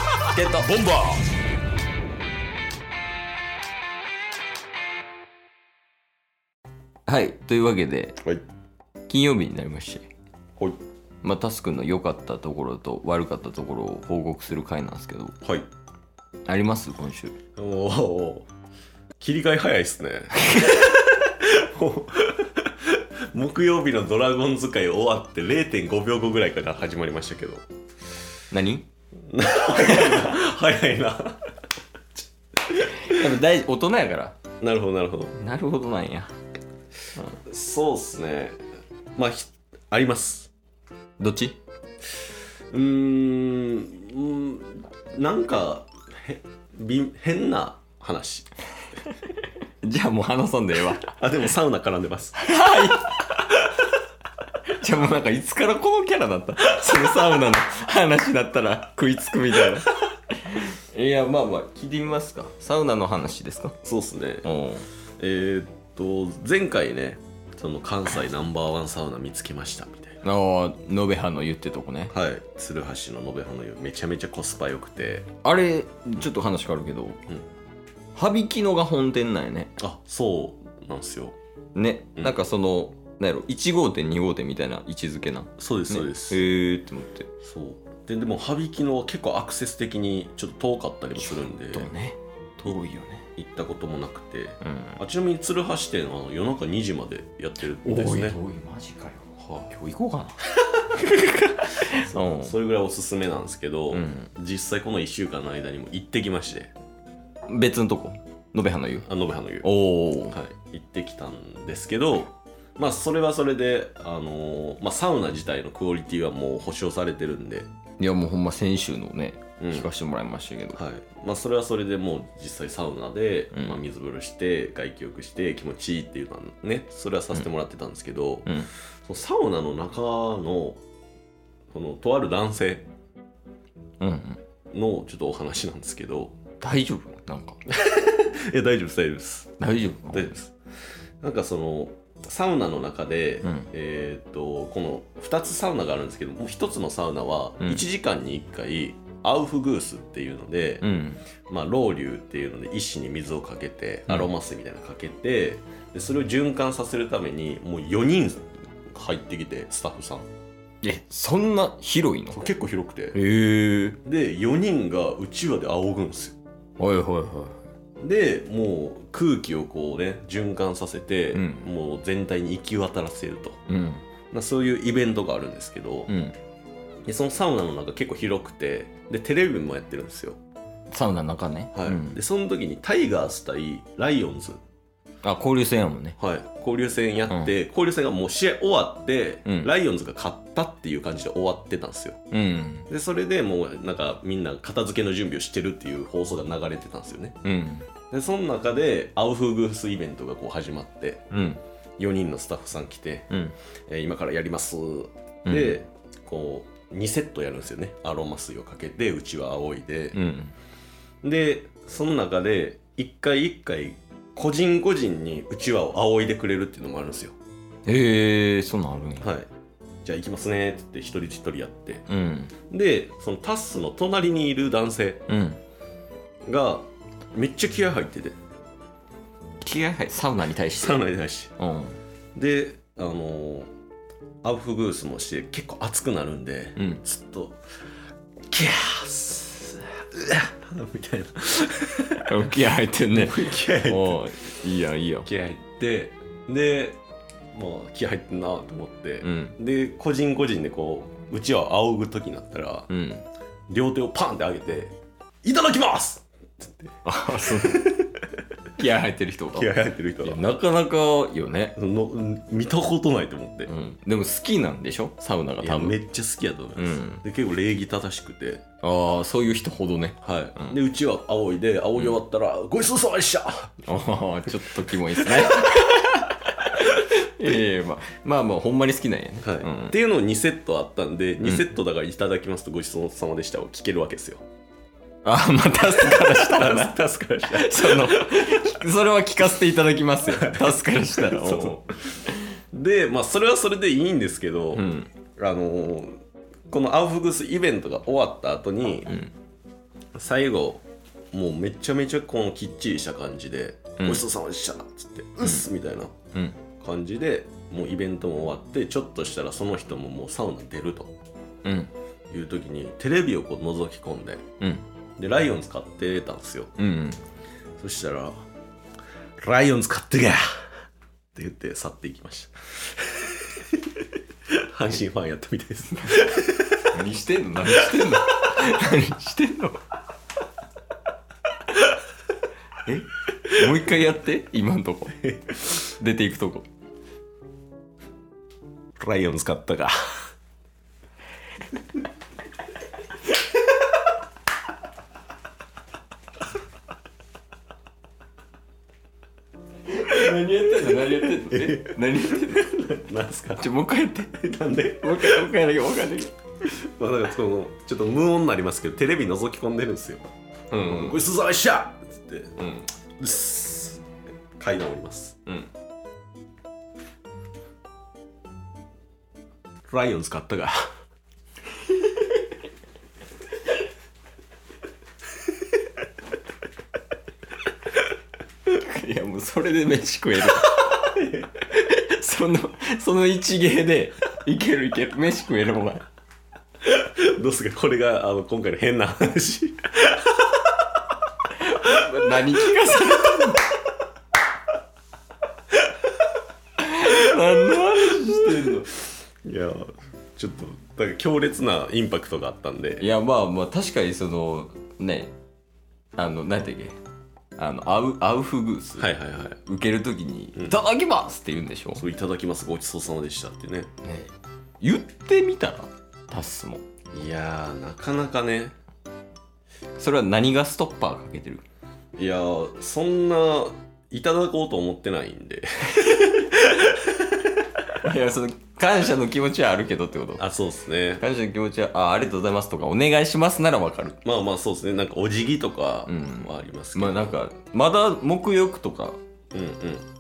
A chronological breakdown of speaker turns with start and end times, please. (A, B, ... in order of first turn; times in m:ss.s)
0:00.3-0:00.7 A
0:00.7-0:01.1 B
0:07.0-0:08.2 A
0:09.1-0:10.1 A
0:11.2-0:15.4 A
0:16.4-0:17.4 A
0:17.6-0:18.4 B
0:19.2-0:27.6 B
0:20.4-0:20.8 A
0:28.5-0:28.8 A
0:29.3-0:31.4 B
0:29.8-0:30.4 A
0:32.6-0:33.3 B
0:32.9-0:34.4 A
0:34.6-0:35.4 B
0:35.3-0:36.3 A
0:37.4-0:38.6 B
0:39.2-0:40.5 B
0:41.2-0:41.6 A
0:42.7-0:48.5 B
0:49.8-0:51.1 A
0:51.1-0:52.4 B
0:52.4-0:53.7 A
0:54.7-1:03.8 A
1:03.8-1:04.5 B
1:04.4-1:04.9 A
1:05.2-1:10.2 B
1:10.2-1:12.1 A
1:12.1-1:15.3 B
1:15.4-1:17.2 A
1:18.1-1:19.7 A
1:19.8-1:21.3 B
1:21.7-1:27.3 A
1:22.2-1:22.4 B
1:25.6-1:26.4 B
1:27.4-1:31.9 B
1:31.1-1:33.2 A
1:33.4-1:38.4 B
1:34.6-1:35.0 A
1:37.6-1:42.6 A
1:39.4-1:39.7 B
1:41.8-1:46.7 B
1:43.9-1:44.3 A
1:47.5-1:49.1 A
1:49.0-1:49.7 B
1:49.6-1:50.4 A
1:50.3-1:57.6 B
1:58.0-2:00.8 A
1:59.6-1:59.9 B
2:00.7-2:10.8 B
2:03.5-2:03.8 A
2:11.7-2:12.8 B
2:14.0-2:14.4 A
2:14.7-2:16.4 B
2:16.6-2:17.6 A
2:17.7-2:19.5 B
2:19.6-2:20.4 A
2:20.1-2:20.5 B
2:21.2-2:30.9 B
2:23.4-2:23.7 A
2:27.6-2:27.8 A
2:30.8-2:31.2 A
2:31.5-2:40.3 B
2:40.8-2:42.4 A
2:42.3-2:43.2 B
2:43.1-2:44.0 A
2:44.0-2:46.4 B
2:46.8-2:47.6 A
2:48.0-2:53.6 B
2:51.3-2:51.7 A
2:53.7-2:54.0 A
2:54.3-2:56.1 B
2:56.1-2:56.4 A
2:57.0-3:00.4 B
3:00.9-3:02.2 A
3:01.7-3:04.6 B
3:05.2-3:06.2 A
3:06.2-3:12.2 B
3:07.3-3:07.5 A
3:09.4-3:09.7 A
3:12.3-3:12.9 A
3:12.9-3:17.3 B
3:17.4-3:17.9 A
3:18.1-3:21.2 B
3:21.3-3:21.6 A
3:22.0-3:23.3 B
3:23.3-3:23.5 A
3:23.9-3:30.2 B
3:25.4-3:25.8 A
3:30.1-3:30.5 A
3:31.2-3:37.3 B
3:37.8-3:39.3 A
3:39.2-3:39.5 B
3:40.0-3:42.1 B
3:42.1-3:42.5 A
3:42.7-3:45.2 B
3:45.3-3:45.6 A
3:46.4-3:48.3 B
3:49.6-3:52.0 A
3:50.8-3:51.5 B
3:52.3-3:53.7 B
3:54.4-3:57.6 B
3:56.8-3:57.0 A
3:58.5-4:04.2 B
4:02.2-4:05.3 A
4:05.2-4:07.0 B
4:07.5-4:12.9 B
4:09.2-4:09.6 A
4:12.9-4:13.2 A
4:13.7-4:16.7 B
4:17.0-4:18.0 A
4:17.4-4:18.1 B
4:18.8-4:21.8 A
4:19.5-4:20.4 B
4:21.8-4:23.7 B
4:23.6-4:26.0 A
4:25.6-4:28.6 B
4:26.8-4:27.2 A
4:28.8-4:30.8 A
4:30.2-4:35.9 B
4:33.8-4:40.0 A
4:39.4-4:44.4 B
4:41.4-4:41.7 A
4:45.2-4:51.9 A
4:45.8-4:48.8 B
4:50.3-4:51.9 B
4:52.7-4:56.2 B
4:54.7-4:55.1 A
4:56.7-4:59.2 B
4:59.0-4:59.3 A
5:00.1-5:06.1 B
5:04.0-5:04.2 A
5:05.4-5:05.7 A
5:06.3-5:06.6 A
5:06.8-5:11.1 B
5:11.6-5:11.9 A
5:12.3-5:14.4 B
5:15.2-5:16.7 B
5:16.8-5:17.2 A
5:17.8-5:18.4 B
5:19.4-5:20.6 B
5:21.3-5:26.8 B
5:26.9-5:29.8 A
5:32.8-5:36.7 A
5:33.5-5:33.7 B
5:39.0-5:40.0 B
5:49.8-5:53.0 A
5:50.8-5:53.7 B
5:53.5-5:56.4 A
5:54.3-5:55.6 B
5:56.6-6:00.3 B
6:00.7-6:01.2 A
6:00.8-6:02.5 B
6:02.6-6:02.9 A
6:03.2-6:04.0 B
6:04.6-6:05.4 B
6:09.9-6:10.9 B
6:11.8-6:12.5 A
6:18.6-6:26.0 A
6:21.1-6:21.4 B
6:26.8-6:30.8 B
6:31.5-6:33.8 A
6:31.8-6:33.5 B
6:36.8-6:39.0 A
6:38.1-6:38.7 B
6:39.4-6:43.1 B
6:43.0-6:45.3 A
6:46.2-6:47.0 A
6:47.6-6:52.1 A
6:49.0-6:49.6 B
6:51.9-6:53.9 B
6:54.0-6:56.8 A
6:57.1-6:58.7 B
7:00.0-7:01.6 A
7:02.2-7:07.3 B
7:06.0-7:06.3 A
7:07.9-7:10.5 A
7:10.4-7:11.2 B
7:11.2-7:14.2 A
7:14.2-7:17.4 B
7:16.0-7:19.2 A
7:19.5-7:20.0 B